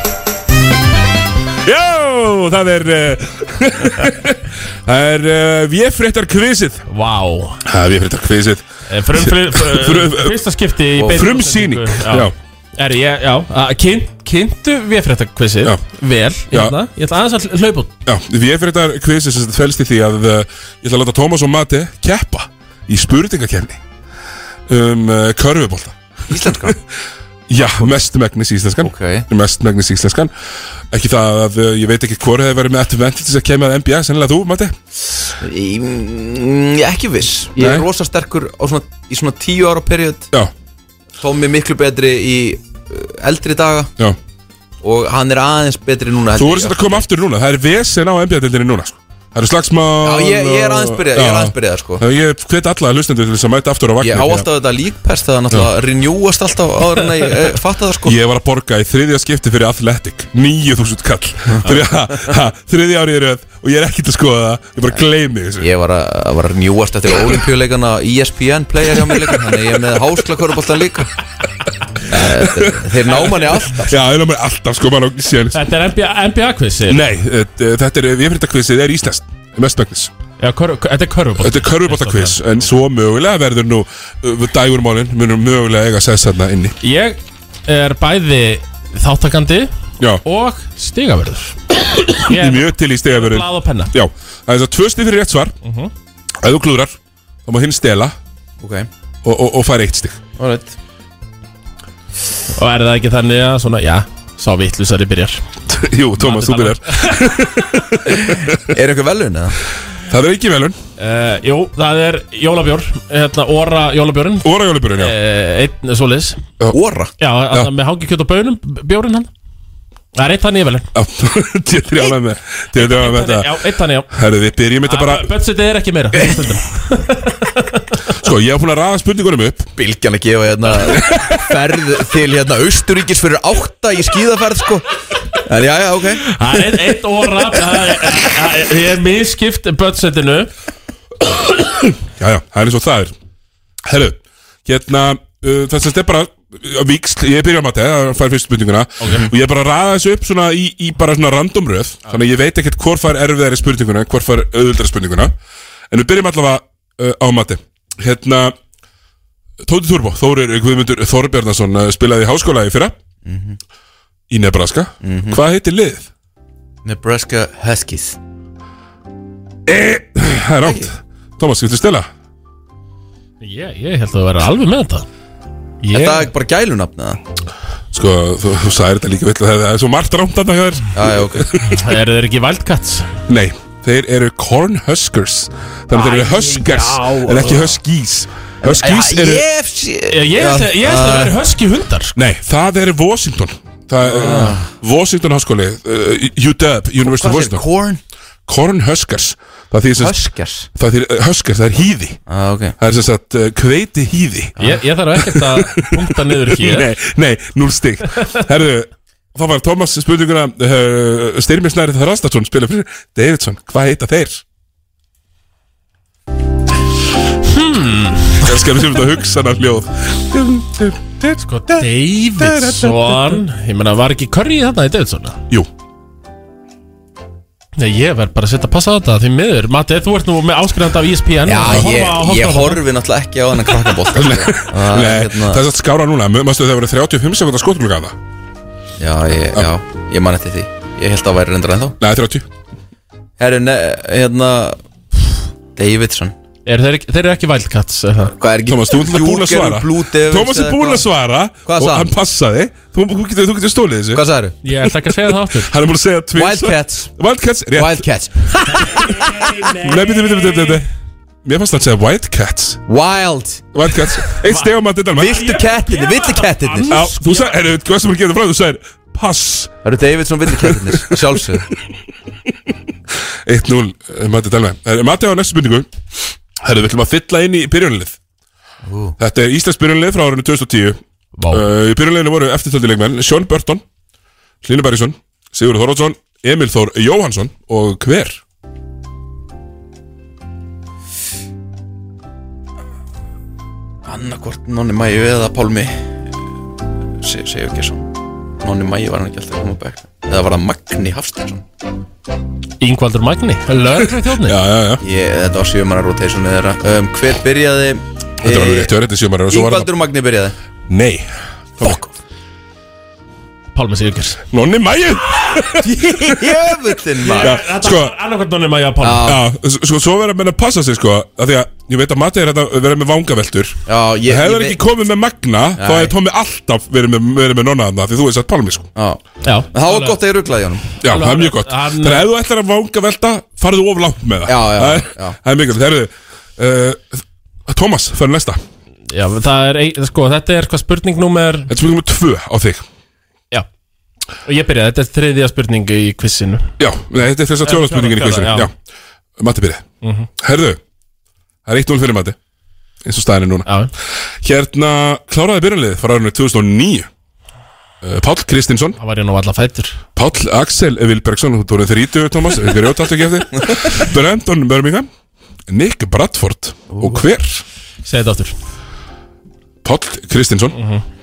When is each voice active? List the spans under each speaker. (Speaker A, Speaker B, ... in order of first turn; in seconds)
Speaker A: 1.6-6.8, 7.6-10.4, 11.0-12.3, 16.5-16.8, 18.1-23.8, 24.7-26.8, 27.5-30.3, 30.9-34.8, 37.6-37.9, 46.3-54.5, 58.0-65.7, 69.4-69.6, 72.1-75.6, 76.9-80.1, 81.4-86.8, 92.2-95.5, 96.4-98.2, 99.2-100.2, 105.7-108.8, 110.1-110.8, 114.4-115.2, 120.9-123.5, 124.1-125.3, 128.2-129.7, 130.9-131.4, 141.8-143.1, 143.8-155.3, 155.9-158.6, 159.6-163.0, 164.3-166.1, 169.7-172.1, 177.9-181.8, 183.3-189.5, 192.2-197.7, 198.5-200.2, 200.7-202.2, 202.8-204.6, 205.2-214.4, 218.4-221.9, 222.4-223.3, 234.1-238.2, 242.0-242.5, 248.7-254.2, 254.8-258.1, 259.8-260.9, 261.4-262.8, 263.7-265.4, 266.9-269.8, 270.5-271.6, 273.5-275.9, 276.6-278.2, 279.2-283.8, 284.6-288.4, 304.4-305.0, 308.4-309.9, 310.9-311.3, 314.5-316.8, 317.4-318.1, 319.2-328.9, 331.0-338.6, 341.7-342.9, 346.8-348.7, 349.4-349.9, 350.4-350.8, 351.6-352.4, 353.0-353.7, 354.4-357.1, 358.0-359.0, 360.2-365.1, 365.7-367.6, 369.8-370.8
Speaker B: 6.9-7.6, 8.9-17.9, 75.5-77.0, 80.4-82.4, 86.8-89.7, 90.2-91.6, 92.2-93.9, 95.6-95.9, 102.5-105.4, 106.2-107.3, 111.0-116.4, 117.2-119.3, 120.2-120.9, 122.8-124.1, 124.8-127.8, 136.2-140.5, 149.0-149.3, 173.4-175.1, 175.8-176.3, 181.7-183.1, 185.9-187.7, 190.1-192.2, 204.6-206.9, 217.4-218.5, 221.4-225.4, 227.8-232.8, 246.7-248.3, 254.6-255.7, 258.7-260.8, 264.4-267.6, 281.4-281.6, 302.8-304.6, 313.7-314.4, 317.2-319.3, 329.4-330.2, 331.0-332.3, 339.1-341.7, 344.4-346.7, 347.6-348.7, 350.0-350.3, 353.7-353.9, 359.0-360.0, 368.1-368.5, 370.7-371.0
Speaker C: 26.3-26.8, 27.6-27.9, 28.8-29.3, 35.4-40.3, 41.2-43.9, 44.8-47.0, 50.0-52.0, 54.0-58.2, 61.5-62.3, 65.6-71.1, 72.1-73.9, 98.6-98.9, 100.4-100.8, 108.7-109.5, 116.7-117.1, 129.8-134.8, 135.5-136.2, 163.2-163.6, 165.0-165.4, 166.8-168.2, 170.6-170.9, 175.9-177.2, 180.9-181.5, 188.6-191.4, 194.0-194.7, 197.0-198.0, 200.0-200.7, 202.3-202.8, 231.4-235.6, 239.0-242.0, 243.4-244.8, 245.8-246.3, 248.3-251.1, 251.7-252.1, 254.1-254.6, 256.4-257.1, 257.7-259.5, 262.9-263.7, 265.2-267.0, 269.8-271.6, 278.8-279.1, 294.1-296.1, 297.2-301.6, 305.0-308.9, 309.5-310.6, 311.8-312.1, 315.8-317.6, 319.0-319.4, 323.9-324.8, 325.8-326.1, 328.9-329.2, 329.7-330.9, 334.5-335.4, 366.9-367.2